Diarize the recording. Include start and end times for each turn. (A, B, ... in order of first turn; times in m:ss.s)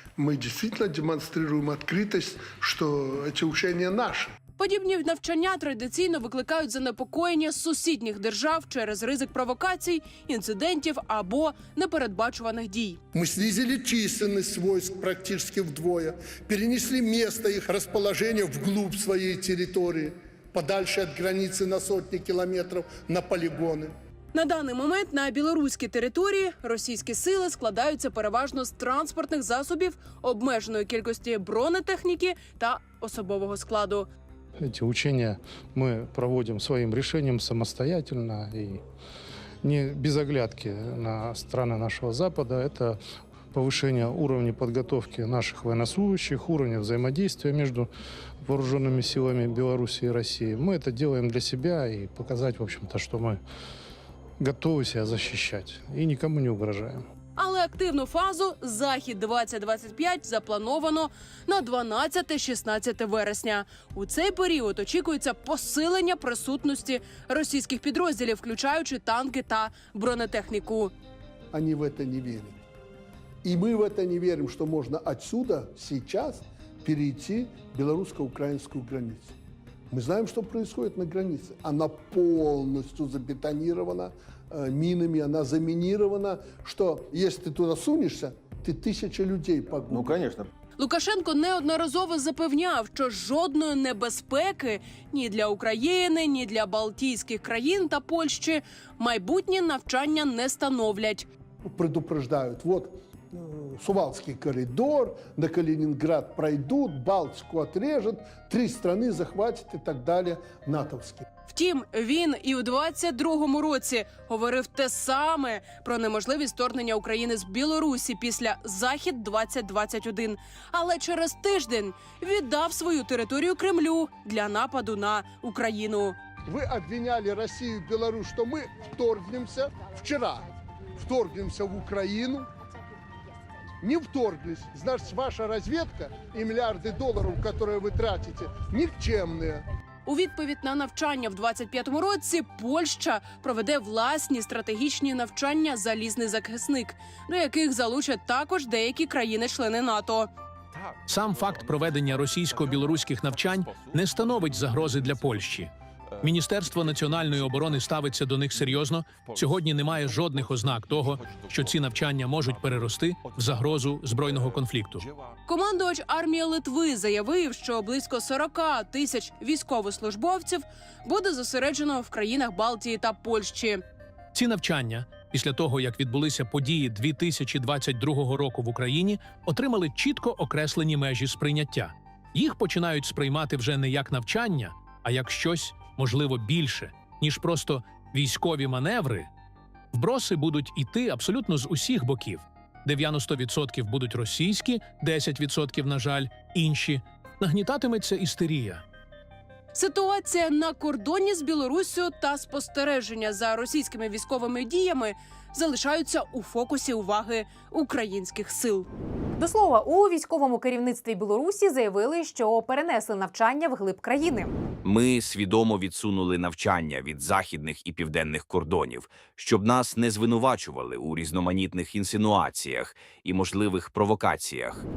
0:00.2-0:04.4 A
0:04.6-0:13.0 B
0:13.1-0:23.9 A
0:24.3-0:34.1 B
0:34.6-0:38.8 C
0:39.6-0:43.0 C
0:43.5-0:47.9 C
0:48.4-0:53.4 C
0:54.4-0:57.0 C
0:57.4-1:10.9 B
1:11.5-1:12.6 A
1:13.4-1:19.3 A
1:19.9-1:30.2 A
1:29.9-1:30.5 D
1:30.8-1:41.3 B
1:41.6-1:51.2 A
1:51.5-2:06.2 B
2:06.5-2:12.5 A
2:13.8-2:19.6 A
2:20.1-2:30.3 B
2:30.7-2:35.6 D
2:31.1-2:45.1 E
2:36.1-2:37.9 D
2:38.5-2:45.4 D
2:45.5-2:53.8 B
2:54.3-3:09.3 E
3:09.9-3:18.8 E
3:19.7-3:28.9 B
3:29.4-3:34.5 F
3:34.8-3:44.8 G